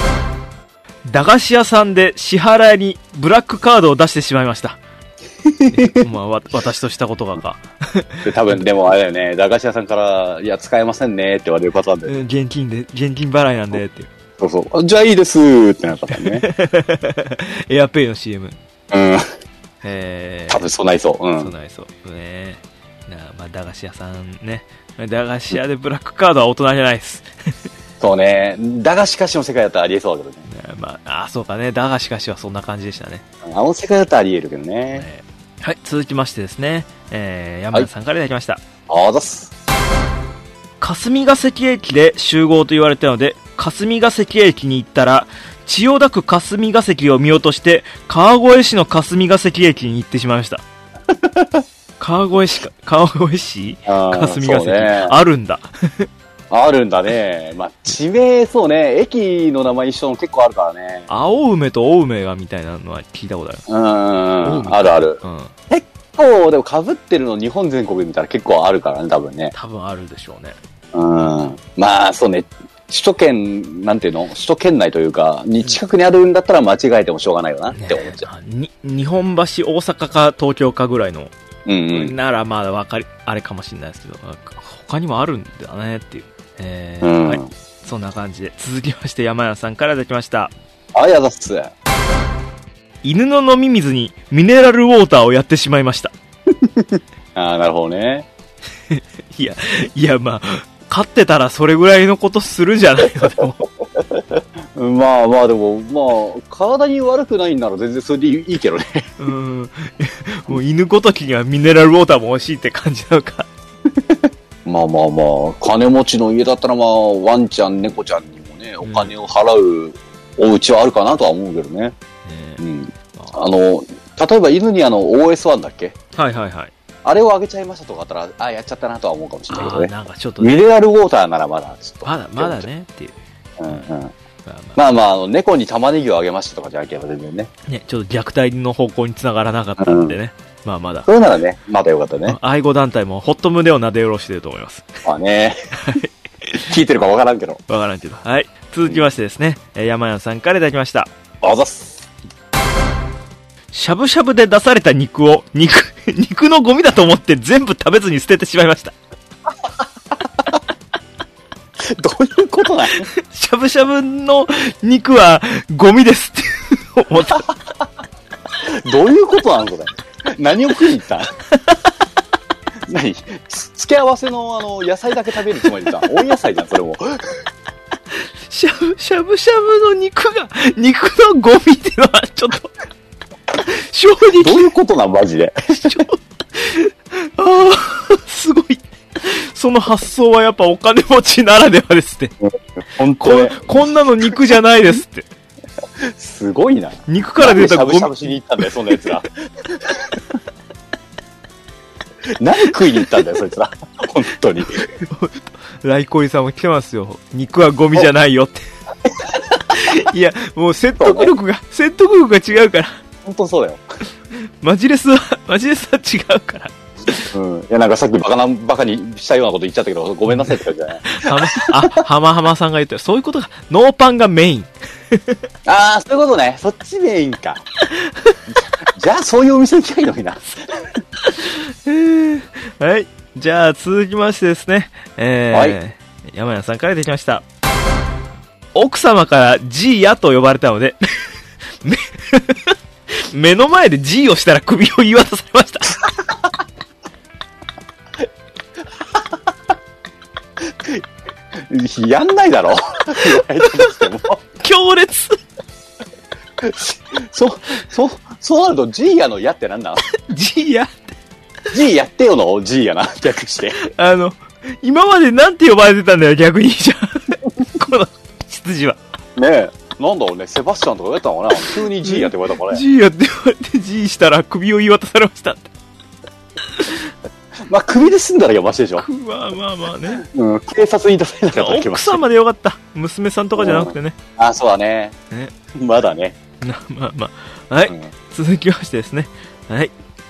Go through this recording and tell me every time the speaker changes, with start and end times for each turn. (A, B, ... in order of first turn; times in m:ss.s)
0:01.0-0:04.8 A
0:05.4-0:06.0 B
0:05.7-0:08.6 A
0:08.2-0:12.1 B
0:12.0-0:14.1 A
0:14.4-0:16.4 B
0:16.1-0:18.6 A
0:18.9-0:19.3 B
0:19.8-0:20.6 A
0:20.5-0:21.5 B
0:21.4-0:27.3 A
0:28.0-0:30.4 B
0:30.5-0:33.2 A
0:33.4-0:35.1 B
0:34.9-0:38.6 A
0:38.9-0:39.5 B
0:40.8-0:50.6 A
0:51.1-0:51.6 B
0:52.0-0:56.1 A
0:53.8-0:55.1 B
0:56.5-1:01.1 B
1:01.1-1:03.6 A
1:03.7-1:09.5 B
1:04.4-1:05.5 A
1:09.5-1:10.6 A
1:10.9-1:18.2 B
1:17.7-1:21.3 A
1:21.6-1:22.1 B
1:21.9-1:30.5 A
1:27.0-1:27.5 B
1:30.9-1:31.7 B
1:33.0-1:36.1 A
1:36.6-1:38.3 B
1:38.9-1:43.6 A
1:44.1-1:49.1 B
1:49.2-1:53.5 A
1:54.1-2:01.9 B
1:58.8-1:59.1 A
2:02.2-2:02.6 A
2:02.6-2:06.0 B
2:06.1-2:06.7 A
2:07.0-2:12.7 B
2:09.5-2:10.5 A
2:12.0-2:13.2 A
2:13.6-2:14.1 B
2:14.4-2:14.8 A
2:14.8-2:17.5 B
2:17.7-2:21.1 A
2:19.8-2:20.2 B
2:21.1-2:22.4 B
2:22.2-2:24.9 A
2:25.0-2:25.6 B
2:25.8-2:26.7 A
2:26.7-2:27.6 B
2:27.7-2:31.1 A
2:31.4-2:32.0 B
2:33.7-2:38.9 A
2:41.8-2:43.1 B
2:43.1-2:47.4 A
2:48.8-2:51.3 B
2:52.9-2:57.4 B
2:58.1-3:02.7 A
3:03.6-3:04.7 A
3:04.4-3:06.0 B
3:05.8-3:12.3 A
3:12.4-3:13.7 B
3:13.2-3:15.3 A
3:16.0-3:20.2 B
3:17.1-3:18.1 A
3:22.4-3:24.9 B
3:25.0-3:28.6 A
3:29.7-3:33.0 A
3:31.0-3:31.3 B
3:33.2-3:33.8 B
3:34.6-3:37.3 A
3:37.3-3:42.0 B
3:41.0-3:45.4 A
3:45.6-3:47.6 B
3:47.9-3:48.4 A
3:48.5-3:50.9 B
3:51.2-3:57.4 A
3:55.5-3:55.8 B
3:58.7-4:01.3 A
4:01.8-4:06.0 A
4:11.6-4:14.4 B
4:14.6-4:15.4 A
4:16.6-4:20.1 B
4:20.1-4:20.9 A
4:21.7-4:23.8 B
4:23.8-4:29.0 A
4:29.4-4:32.8 B
4:32.0-4:35.7 A
4:37.7-4:39.0 B
4:39.0-4:40.2 A
4:40.2-4:42.2 B
4:41.5-4:44.2 A
4:43.6-4:45.2 B
4:45.7-4:46.4 B
4:46.6-4:49.9 A
4:47.9-4:48.1 B